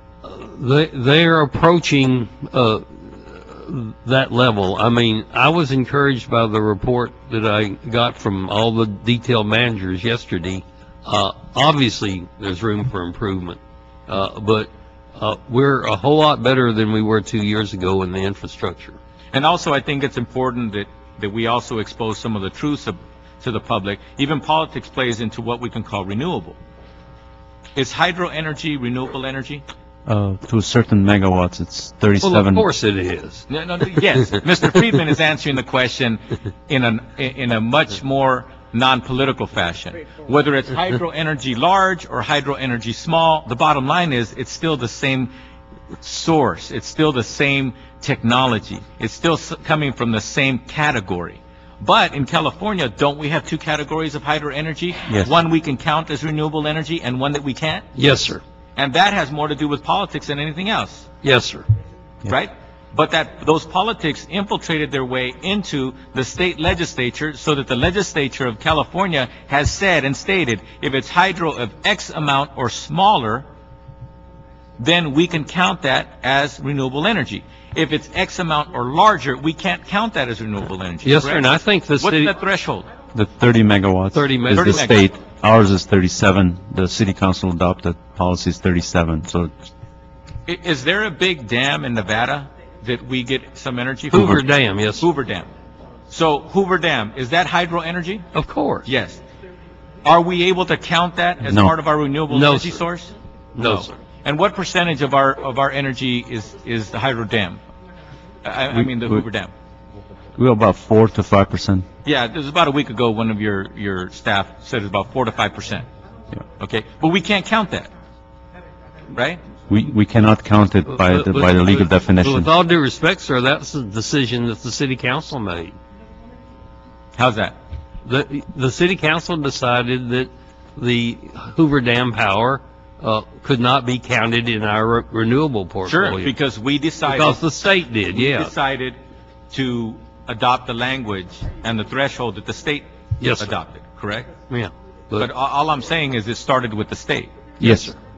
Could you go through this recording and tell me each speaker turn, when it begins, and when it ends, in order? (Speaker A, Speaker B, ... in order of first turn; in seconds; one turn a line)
Speaker A: 0.2-19.0
Speaker B: 19.3-26.6
Speaker B: 27.8-29.6
Speaker C: 30.1-32.7
Speaker A: 32.2-33.5
Speaker B: 33.5-45.3
Speaker B: 46.0-57.9
Speaker A: 57.9-58.4
Speaker B: 58.8-61.1
Speaker A: 61.2-61.7
Speaker B: 62.2-73.4
Speaker B: 74.8-82.9
Speaker A: 81.0-82.3
Speaker C: 83.1-89.5
Speaker A: 84.1-85.0
Speaker B: 84.5-85.0
Speaker B: 90.5-94.5
Speaker A: 94.1-95.1
Speaker C: 94.1-94.4
Speaker B: 95.0-95.5
Speaker B: 96.1-98.3
Speaker A: 98.3-98.9
Speaker B: 98.8-99.2
Speaker B: 100.0-107.6
Speaker C: 101.4-101.7
Speaker A: 102.3-102.8
Speaker A: 103.5-104.0
Speaker B: 108.4-109.5
Speaker C: 108.7-109.2
Speaker C: 110.3-111.8
Speaker B: 112.0-115.8
Speaker B: 116.6-117.9
Speaker B: 119.1-119.4
Speaker C: 119.7-122.5
Speaker A: 120.9-125.8
Speaker B: 127.2-127.5
Speaker A: 128.0-136.3
Speaker B: 135.8-137.4
Speaker A: 137.0-138.5
Speaker B: 138.1-139.0
Speaker B: 139.5-144.3
Speaker A: 143.2-143.5
Speaker A: 144.5-145.3
Speaker B: 145.2-147.3
Speaker A: 147.6-147.9
Speaker C: 147.6-147.9